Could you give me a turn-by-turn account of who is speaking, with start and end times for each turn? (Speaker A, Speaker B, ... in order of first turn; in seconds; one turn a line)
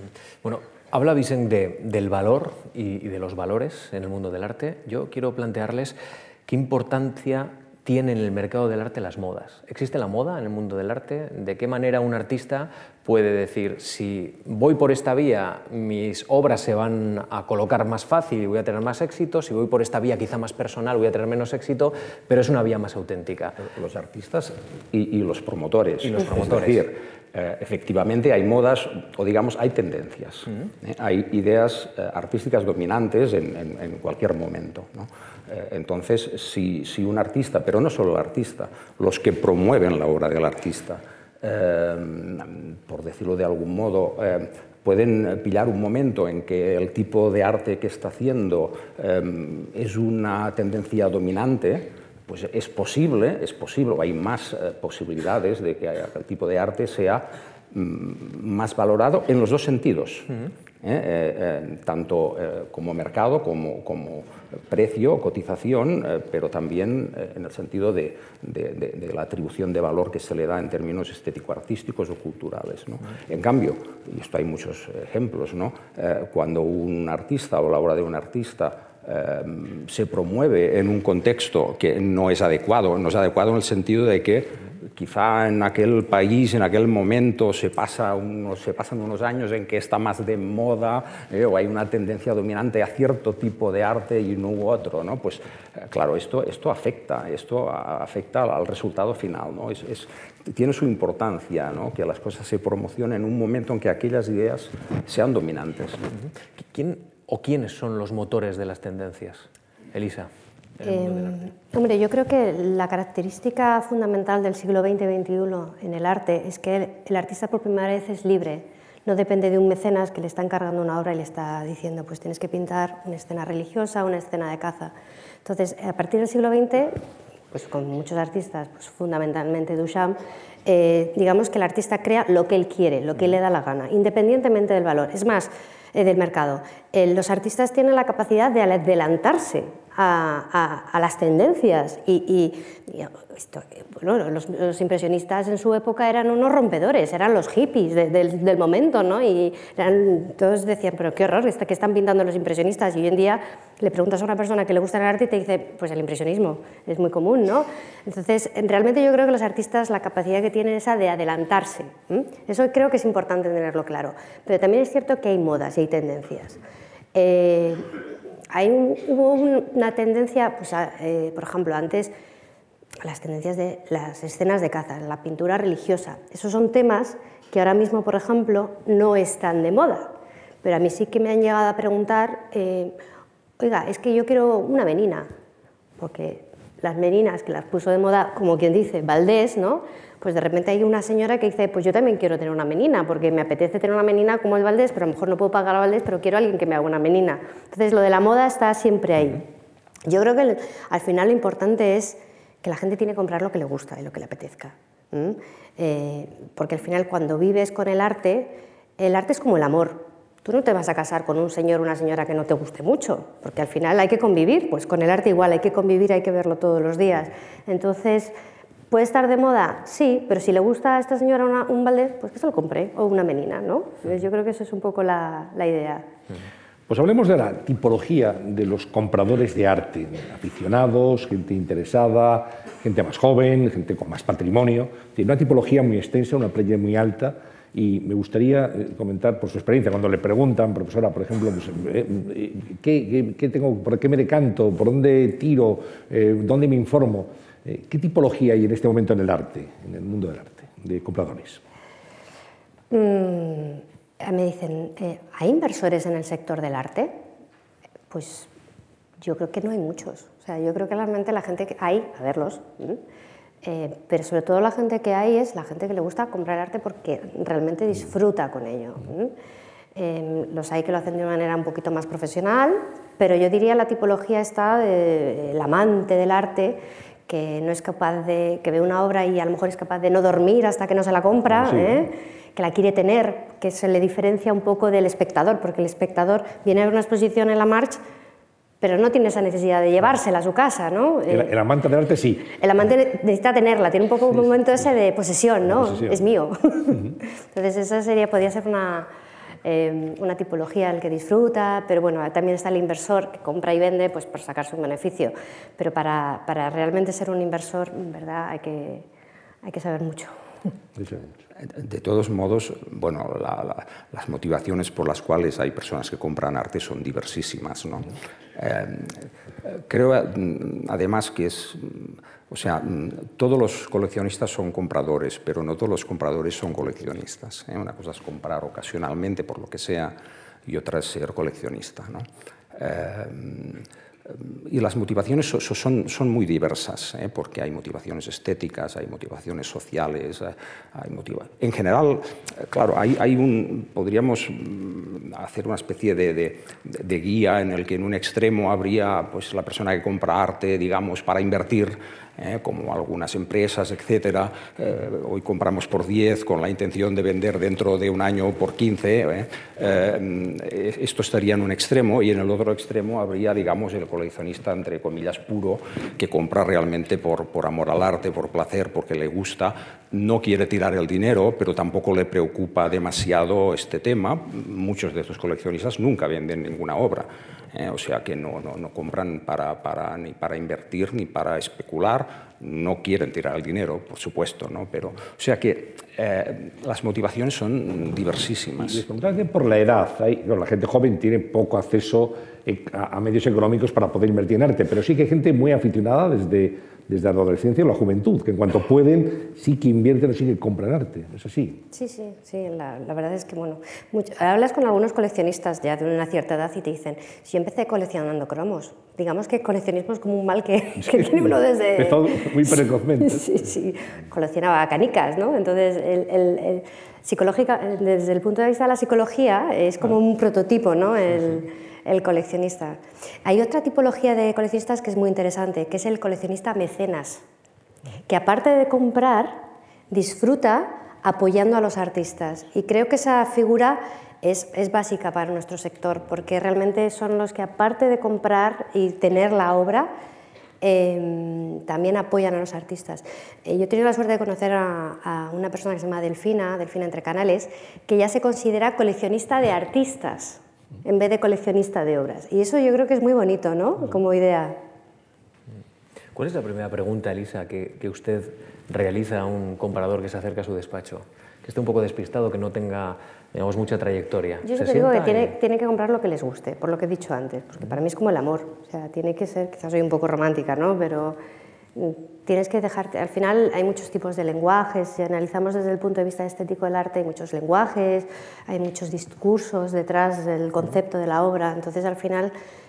Speaker A: 0.4-23.6
Speaker B: 23.6-106.0
Speaker A: 26.0-26.8
Speaker A: 106.6-110.3
Speaker A: 110.8-111.3
Speaker C: 110.8-127.0
Speaker C: 127.5-166.6
Speaker C: 167.1-168.0
Speaker C: 168.5-172.1
Speaker C: 173.0-180.1
Speaker C: 180.6-182.9
Speaker C: 183.6-185.3
Speaker C: 186.0-199.5
Speaker C: 200.1-218.3
Speaker C: 218.9-226.1
Speaker D: 226.9-251.6
Speaker C: 252.9-257.1
Speaker C: 258.1-258.5
Speaker C: 259.2-263.0
Speaker C: 263.6-269.3
Speaker C: 269.9-288.0
Speaker D: 281.5-282.1
Speaker C: 288.8-291.5
Speaker D: 291.3-292.6
Speaker C: 292.5-299.1
Speaker D: 295.7-296.2
Speaker C: 299.6-309.1
Speaker C: 309.6-310.3
Speaker D: 311.0-311.3
Speaker B: 311.6-330.1
Speaker B: 330.7-389.0
Speaker D: 388.9-401.9
Speaker C: 401.9-427.4
Speaker D: 411.0-413.6
Speaker C: 428.3-440.1
Speaker C: 440.8-454.8
Speaker A: 456.4-465.5
Speaker C: 464.6-471.4
Speaker C: 471.9-482.5